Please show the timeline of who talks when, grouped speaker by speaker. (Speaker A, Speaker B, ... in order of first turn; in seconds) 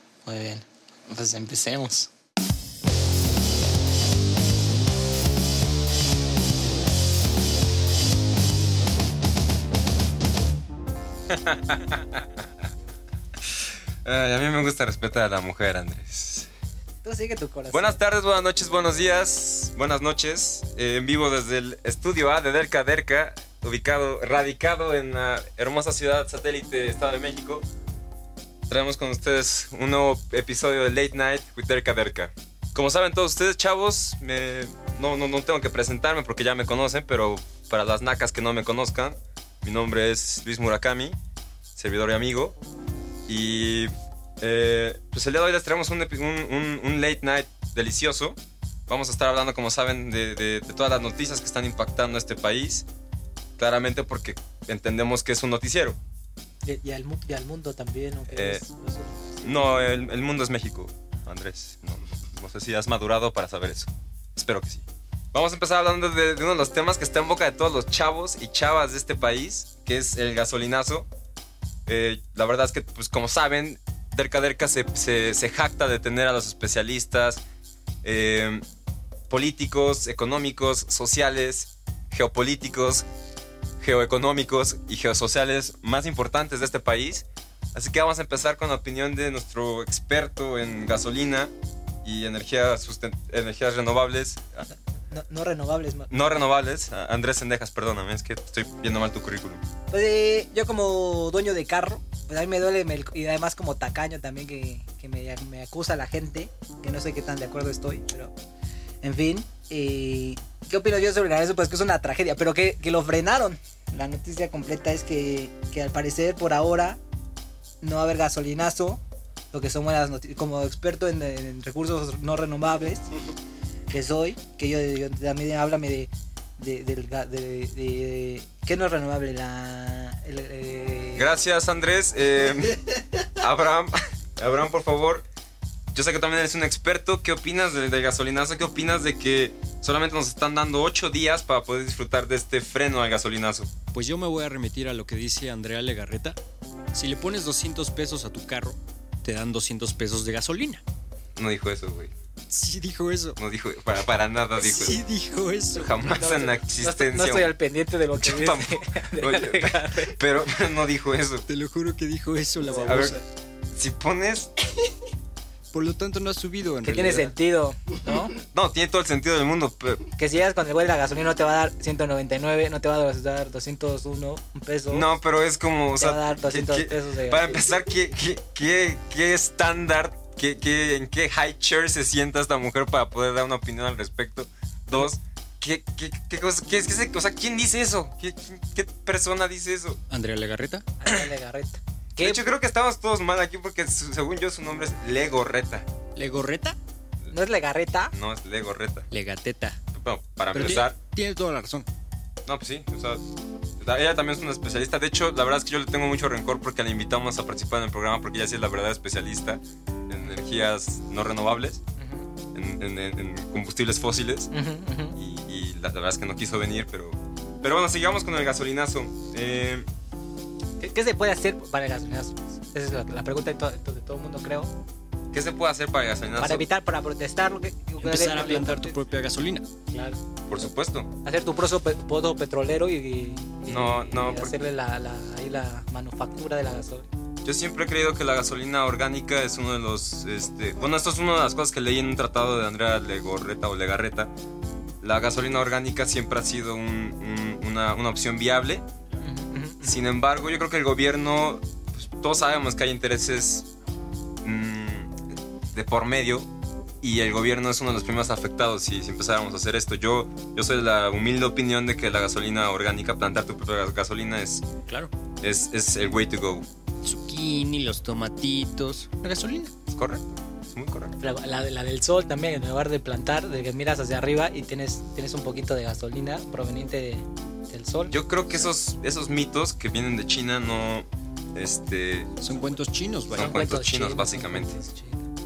Speaker A: 0.2-2.1, 17.0-18.0, 56.6-59.7, 95.1-96.4, 99.9-108.3, 109.0-117.0, 117.8-119.0, 119.5-123.0, 123.9-131.2, 156.1-160.2, 162.7-163.1, 166.8-168.3, 170.2-175.1, 176.0-177.5, 191.0-192.4, 197.3-198.1, 212.0-212.2, 214.5-215.1, 220.8-224.7, 226.3-228.9, 229.9-230.2, 231.2-237.1, 249.2-250.0, 271.2-278.1, 283.3-285.2
Speaker B: 11.3-12.2, 14.0-16.5, 17.7-27.6, 28.7-41.2, 41.8-42.5, 43.3-48.4, 48.9-52.8, 53.6-56.0, 58.3-58.6, 59.4-71.1, 71.9-77.4, 78.0-78.6, 79.3-83.0, 83.8-91.5, 92.0-94.7, 96.1-99.6, 131.2-135.2, 135.9-143.7, 151.3-152.1, 153.3-155.0, 155.7-157.5, 158.1-161.4, 162.8-163.2, 163.7-164.5, 168.4-170.0, 174.9-190.0, 192.2-195.8, 198.1-199.1, 199.9-200.9, 202.4-203.2, 203.8-211.8, 212.5-214.5, 215.2-219.9, 225.3-226.7, 230.5-231.1, 233.7-234.5, 237.4-244.3, 245.0-248.8, 249.8-253.7, 254.4-255.2, 255.7-256.5, 257.0-264.6, 265.4-266.6, 269.9-271.1, 278.1-282.3, 283.3-284.8
Speaker C: 143.9-146.4, 146.9-150.8, 152.5-153.4, 154.6-156.4, 161.5-163.2, 165.7-167.3, 190.1-190.8, 196.2-196.8, 199.1-199.8, 200.5-201.9, 228.0-229.7, 264.9-265.1, 267.0-269.7, 282.4-283.6